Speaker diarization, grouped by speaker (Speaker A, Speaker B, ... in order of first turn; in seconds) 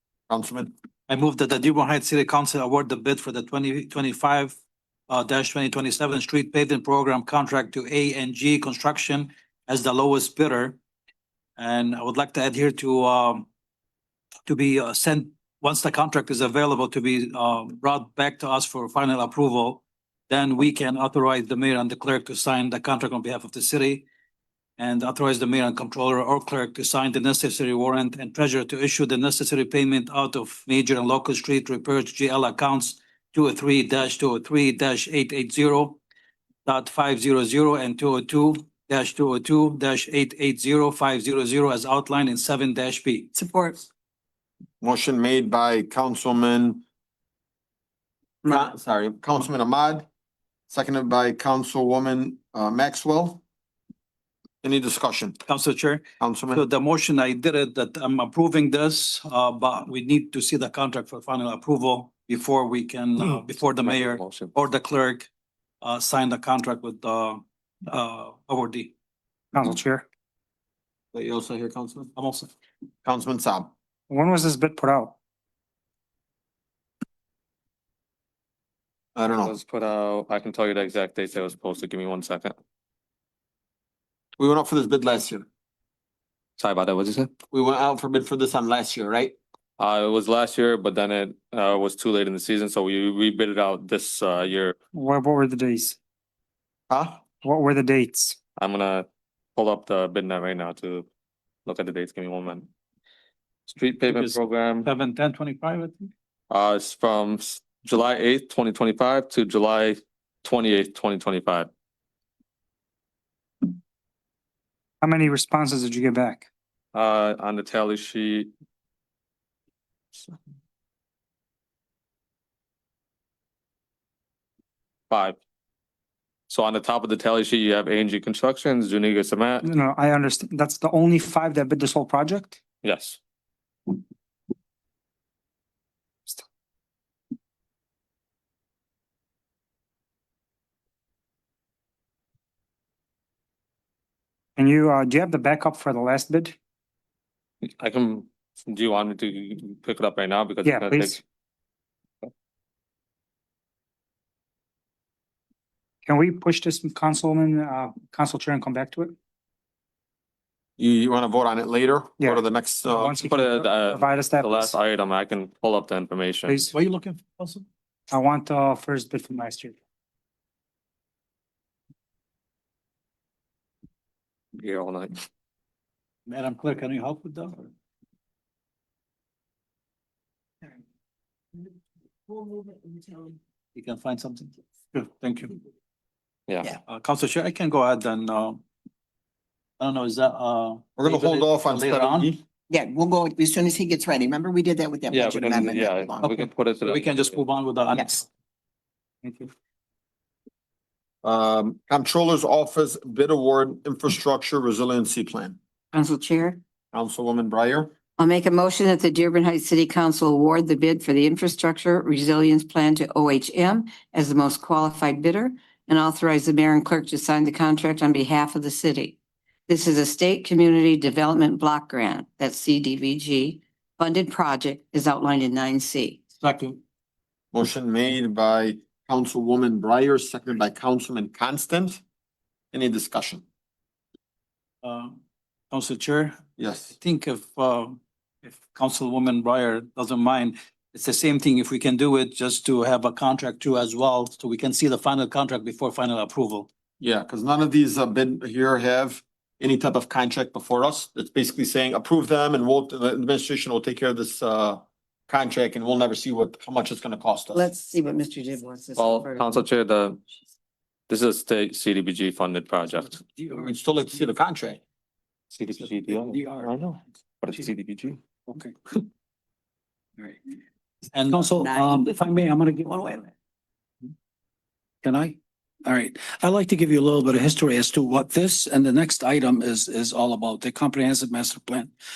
Speaker A: 0.3-0.7, 44.8-46.8, 48.4-50.1, 50.7-53.4, 54.6-55.4, 56.2-56.7, 71.1-72.1, 73.0-73.7, 79.2-79.6, 84.4-85.5, 87.5-89.4, 96.9-97.2, 160.8-163.3, 191.0-192.4, 201.2-205.6, 206.9-207.9, 227.5-232.0, 232.7-233.4, 236.6-236.9, 247.0-257.7, 263.5-264.8
Speaker B: 1.1-4.6, 5.1-10.8, 11.6-13.5, 14.5-24.1, 24.8-36.0, 36.7-43.3, 55.5-65.3, 65.8-68.9, 72.2-72.5, 104.1-106.1, 166.7-167.7, 176.3-177.7, 183.8-185.6, 186.9-188.6, 189.8-192.3, 196.3-198.3, 199.2-199.5, 226.4-226.8, 234.8-235.2, 235.7-236.4, 237.0-246.7, 271.1-271.5
Speaker C: 43.4-43.8, 182.3-183.3, 192.7-196.4
Speaker D: 63.7-64.6, 79.4-82.5, 86.6-87.3, 89.8-94.8, 98.6-101.1, 101.7-102.7, 103.7-104.9, 106.5-111.7, 116.9-118.5, 125.1-125.4, 126.5-129.7, 132.8-133.2, 147.7-151.2, 163.1-166.6, 174.6-175.2, 195.1-197.4, 259.0-260.2, 261.1-263.2, 265.5-268.2
Speaker E: 69.5-70.0, 74.1-75.2, 94.9-96.0, 97.4-98.4, 115.0-116.5, 129.6-132.6, 144.6-146.6, 150.7-151.2, 156.1-159.2, 163.0-164.8, 166.5-166.7, 168.1-169.8
Speaker F: 205.9-206.6, 208.2-219.2, 219.7-226.2, 257.5-259.6
Speaker G: 263.2-263.5, 266.2-266.7, 268.5-268.7, 271.3-273.3, 275.0-281.9